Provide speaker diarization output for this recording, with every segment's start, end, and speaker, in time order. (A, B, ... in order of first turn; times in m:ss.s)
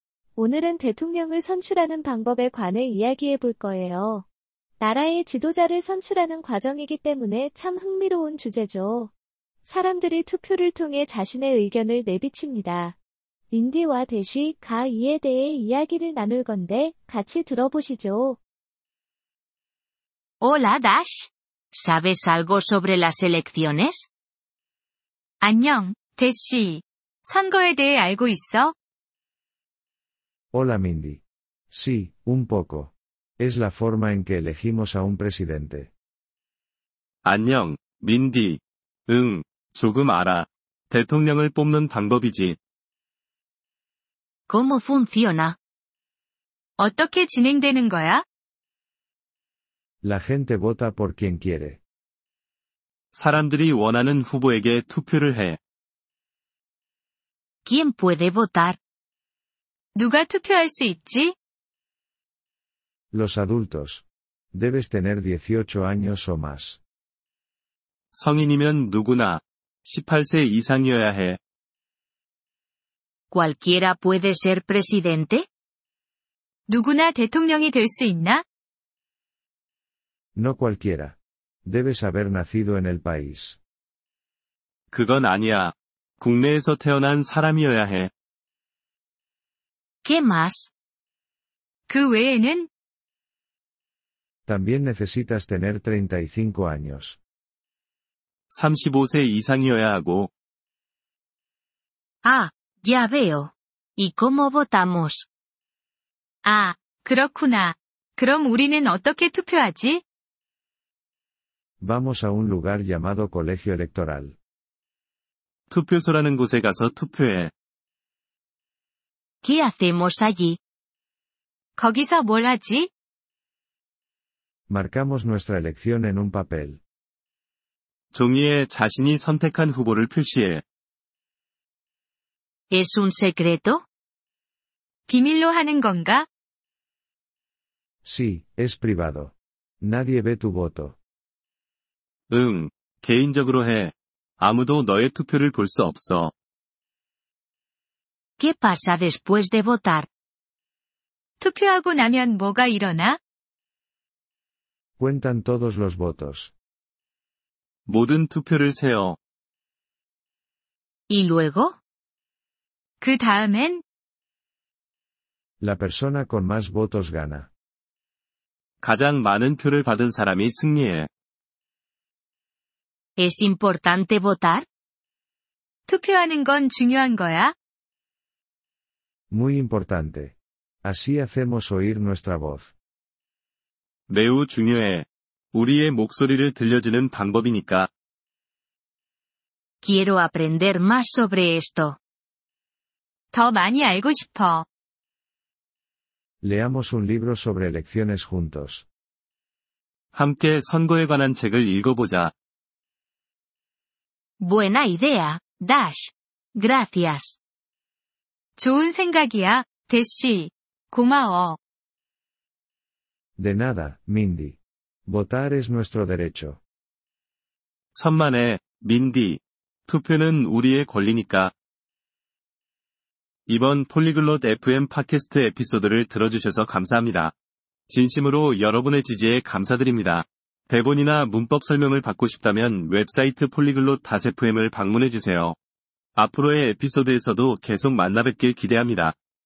0:00.4-0:04.2 A
0:04.8-0:09.1 A
0:09.6-0:13.0 A
0:13.5-0:18.4 A
0:20.4-0:24.1 B
0:25.4-0:28.7 C
0:30.5-0:31.2 D
0:31.7-0:35.9 D
0:37.2-0:42.6 E
0:44.5-0:45.6 B
0:46.8-0:48.2 C
0:50.0-0:51.8 D
0:53.1-0:55.6 E
0:57.6-0:58.8 B
1:00.0-1:01.4 C
1:03.1-1:06.8 D
1:08.1-1:11.4 E
1:13.3-1:15.5 B
1:16.7-1:18.4 C
1:20.4-1:23.6 D
1:24.9-1:28.1 E
1:30.0-1:30.7 B
1:31.9-1:32.7 C
1:34.5-1:37.2 D
1:38.5-1:40.3 E
1:42.2-1:45.3 B
1:46.4-1:50.0 C
1:51.8-1:54.4 D
1:55.7-1:57.5 E
1:59.4-2:00.6 B
2:01.8-2:02.9 C
2:04.7-2:06.8 D
2:08.1-2:10.6 E
2:12.7-2:13.8 B
2:15.1-2:16.3 C
2:18.0-2:21.0 D
2:22.3-2:26.3 E
2:28.4-2:30.1 B
2:31.4-2:33.2 C
2:35.0-2:36.5 D
2:37.9-2:39.2 E
2:41.1-2:41.8 B
2:43.0-2:43.8 C
2:45.6-2:47.5 D
2:48.8-2:51.1 E
2:53.2-2:54.7 B
2:55.9-2:57.5 C
2:59.3-3:02.7 D
3:04.1-3:07.9 E
3:09.8-3:12.0 B
3:13.3-3:14.7 C
3:16.4-3:18.9 D
3:20.1-3:22.3 E
3:24.4-3:27.4 B
3:28.6-3:31.6 C
3:33.4-3:36.6 D
3:38.0-3:41.5 E
3:43.5-3:47.3 E
3:47.9-3:55.6 E
3:56.2-3:59.2 E